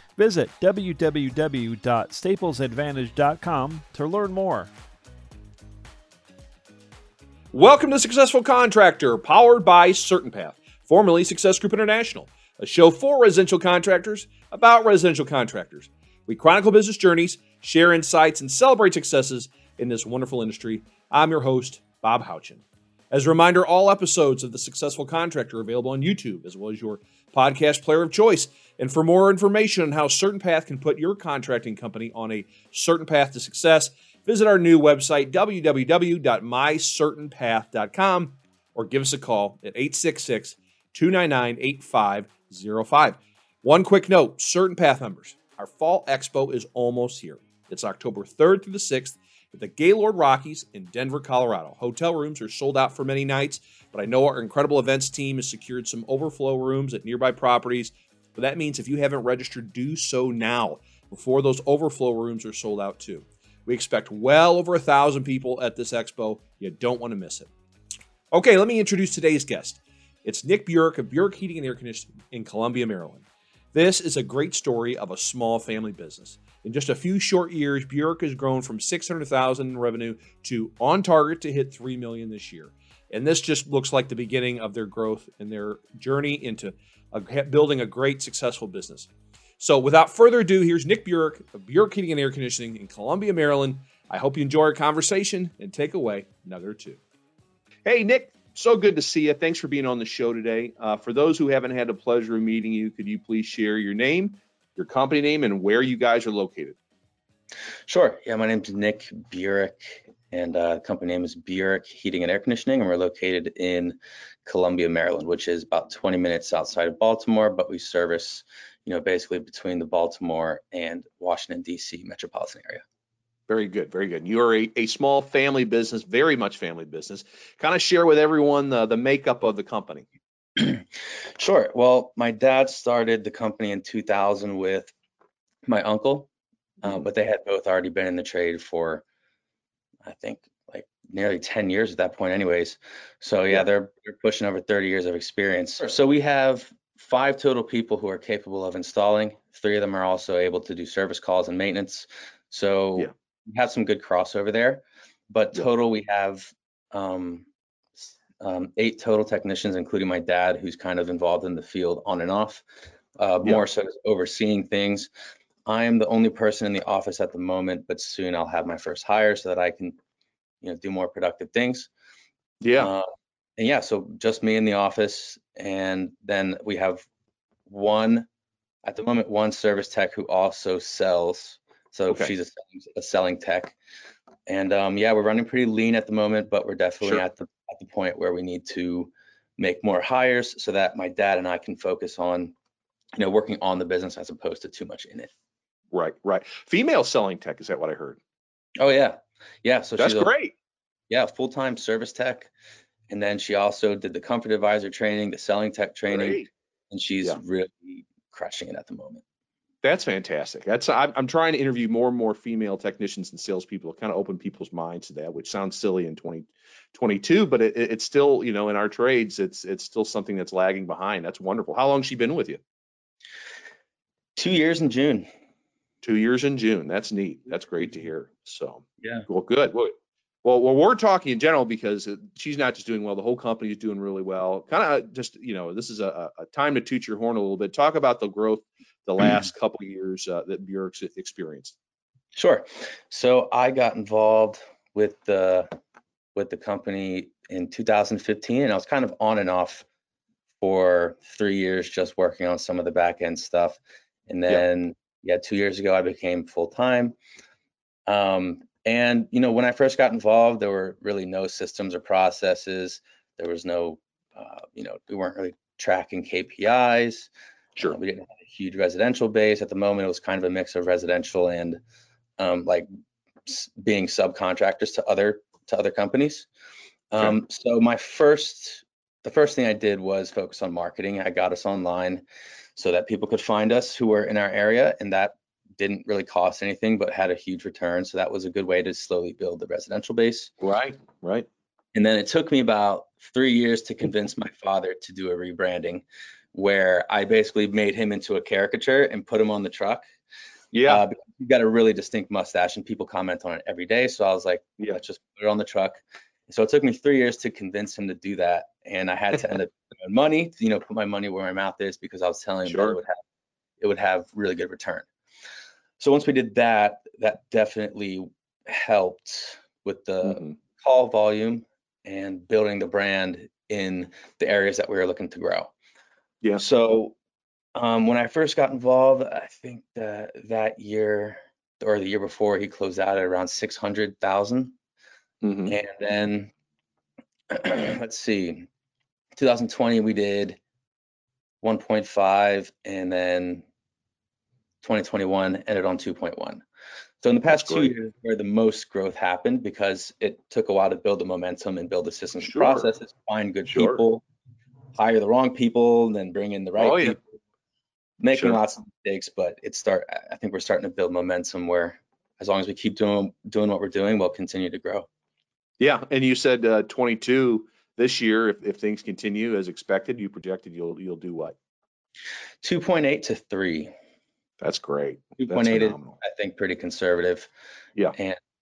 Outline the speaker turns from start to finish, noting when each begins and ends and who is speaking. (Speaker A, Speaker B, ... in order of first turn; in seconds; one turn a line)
Speaker A: 0.2-4.7
Speaker B: 7.5-67.5
Speaker B: 68.3-97.0
Speaker B: 97.9-106.8
Speaker C: 107.9-122.8
Speaker B: 123.5-130.1
Speaker C: 130.6-130.8
Speaker C: 131.4-134.9
Speaker C: 135.7-136.3
Speaker C: 136.8-139.1
Speaker C: 140.0-157.5
Speaker C: 158.4-162.6
Speaker C: 163.2-165.1
Speaker C: 165.7-170.0
Speaker C: 170.6-171.9
Speaker B: 172.6-172.9
Speaker C: 172.8-177.1
Speaker C: 177.7-178.3
Speaker C: 178.8-183.8
Speaker C: 184.5-192.5
Speaker C: 193.1-195.3
Speaker B: 195.9-198.2
Speaker C: 198.8-200.3
Speaker B: 200.0-200.5
Speaker C: 201.1-202.5
Speaker C: 203.1-209.2
Speaker B: 206.1-206.5
Speaker B: 209.8-222.6
Speaker C: 224.4-225.3
Speaker B: 226.0-241.8
Speaker C: 242.3-245.7
Speaker C: 246.3-249.9
Speaker C: 250.6-257.2
Speaker C: 258.1-267.3
Speaker C: 267.9-271.8
Speaker C: 272.4-272.9
Speaker C: 273.5-276.5
Speaker C: 277.1-282.2
Speaker C: 282.8-290.5
Speaker B: 290.6-291.5
Speaker C: 291.9-300.0
Speaker B: 300.7-301.0
Speaker C: 300.9-313.2
Speaker B: 312.7-313.0
Speaker C: 313.8-315.1
Speaker C: 316.0-325.7
Speaker B: 320.2-320.6
Speaker C: 326.6-327.1
Speaker C: 327.8-334.8
Speaker B: 335.4-335.8
Speaker C: 335.7-336.5
Speaker C: 337.5-338.7
Speaker C: 339.4-340.6
Speaker C: 341.6-343.6
Speaker C: 344.8-346.6
Speaker C: 347.2-354.2
Speaker B: 347.5-347.9
Speaker B: 352.4-352.9
Speaker B: 353.7-354.0
Speaker C: 355.0-357.2
Speaker B: 356.8-357.2
Speaker C: 358.2-365.1
Speaker B: 358.3-358.6
Speaker B: 365.8-371.6
Speaker C: 372.6-373.9
Speaker B: 374.6-376.2
Speaker C: 375.4-377.5